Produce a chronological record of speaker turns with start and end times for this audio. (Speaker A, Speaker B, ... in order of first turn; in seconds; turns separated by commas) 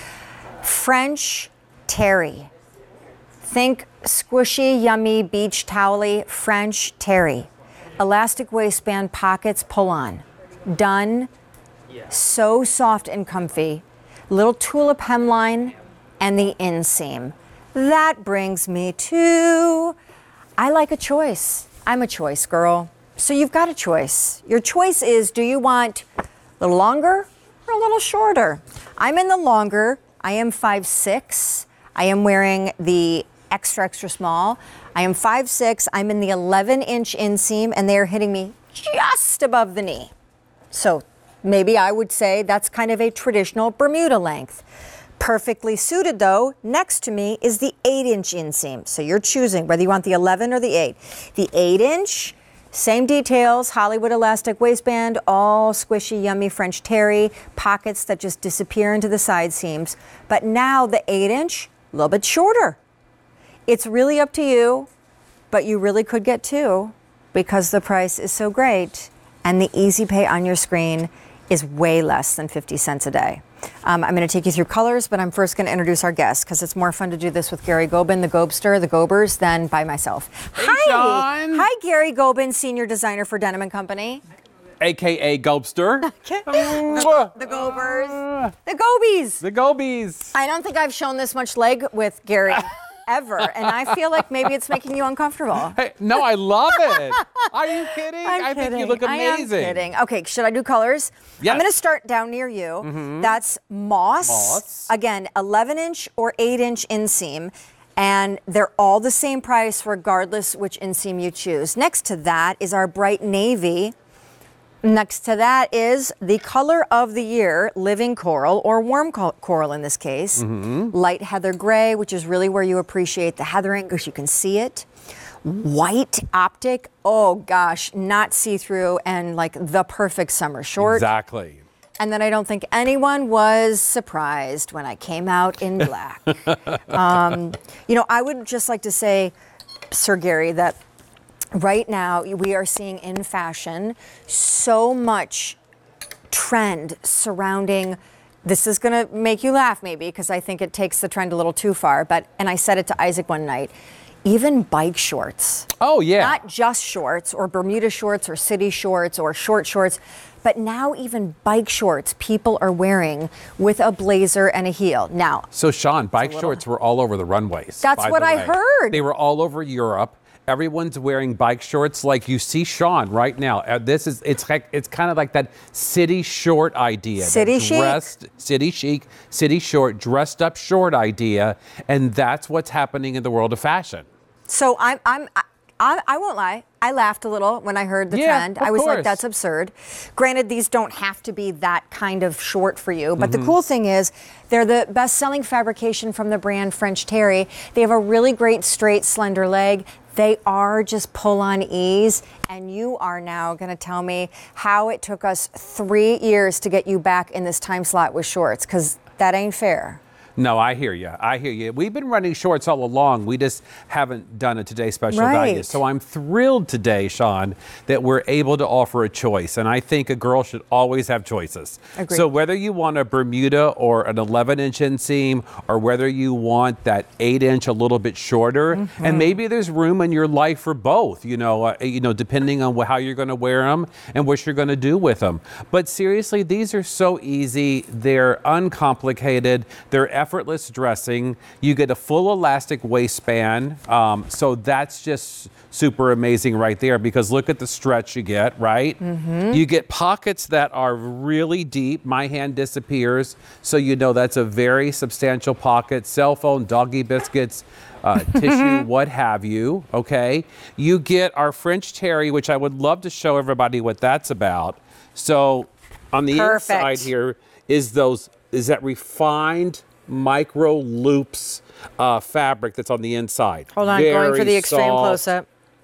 Speaker A: 0.6-2.5, Speaker A: 3.4-11.3, Speaker A: 12.1-20.0, Speaker A: 20.6-26.1, Speaker A: 26.6-40.1, Speaker A: 40.7-44.6, Speaker A: 45.2-62.8, Speaker A: 63.7-64.9, Speaker A: 65.5-84.2, Speaker B: 80.6-81.7, Speaker B: 84.8-88.5, Speaker A: 86.0-89.4, Speaker B: 89.4-90.3, Speaker A: 90.3-95.8, Speaker B: 93.6-94.0, Speaker B: 95.7-99.8, Speaker A: 96.9-97.5, Speaker A: 98.2-113.9, Speaker B: 101.4-101.7, Speaker B: 102.8-103.3, Speaker B: 104.2-104.9, Speaker A: 114.8-124.9, Speaker B: 120.4-120.9, Speaker A: 125.4-131.1, Speaker B: 130.8-131.6, Speaker A: 132.0-139.3, Speaker A: 139.9-140.8, Speaker A: 141.5-145.6, Speaker A: 146.3-153.7, Speaker A: 154.3-165.5, Speaker B: 155.8-156.4, Speaker B: 165.5-184.1, Speaker A: 166.2-166.6, Speaker A: 167.8-169.0, Speaker A: 177.2-178.1, Speaker A: 184.5-210.0, Speaker B: 188.1-189.2, Speaker B: 193.2-193.5, Speaker B: 210.4-249.0, Speaker A: 215.1-215.8, Speaker A: 222.0-222.2, Speaker A: 228.8-229.3, Speaker A: 249.0-249.6, Speaker B: 249.5-275.2, Speaker A: 258.4-258.8, Speaker A: 266.3-267.1, Speaker A: 273.7-275.5